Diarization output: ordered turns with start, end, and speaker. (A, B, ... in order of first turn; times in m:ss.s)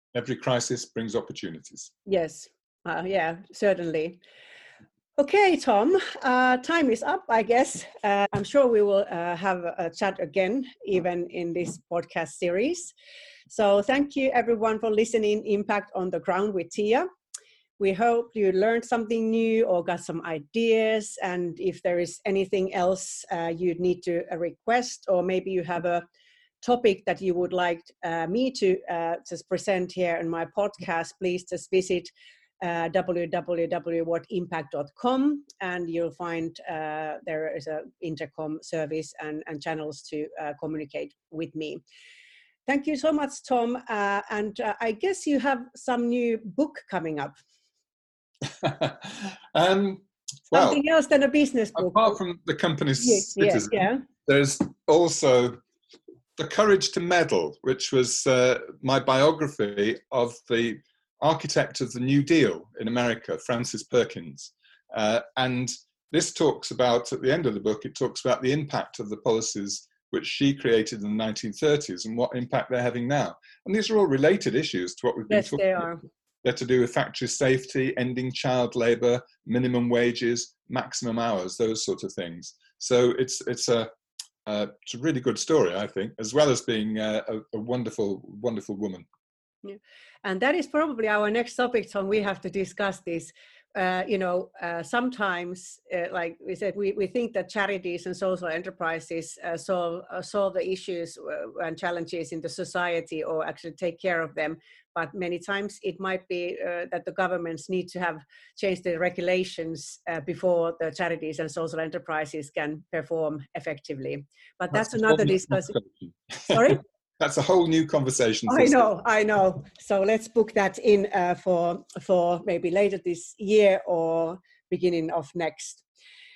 0:00.1-0:01.9 A
0:02.1-0:04.2 B
0:05.2-0:12.9 B
0:13.5-0:17.1 B
0:17.8-0:26.0 B
0:26.6-0:41.8 B
0:42.7-0:47.4 B
0:48.6-0:50.8 A
0:50.5-0:52.2 B
0:51.8-0:55.6 A
0:53.0-0:54.0 B
0:56.4-1:23.9 A
1:15.3-1:16.0 B
1:24.4-1:29.1 A
1:29.6-1:55.8 B
1:54.7-1:58.9 A
1:56.5-1:56.8 B
1:58.5-2:05.8 B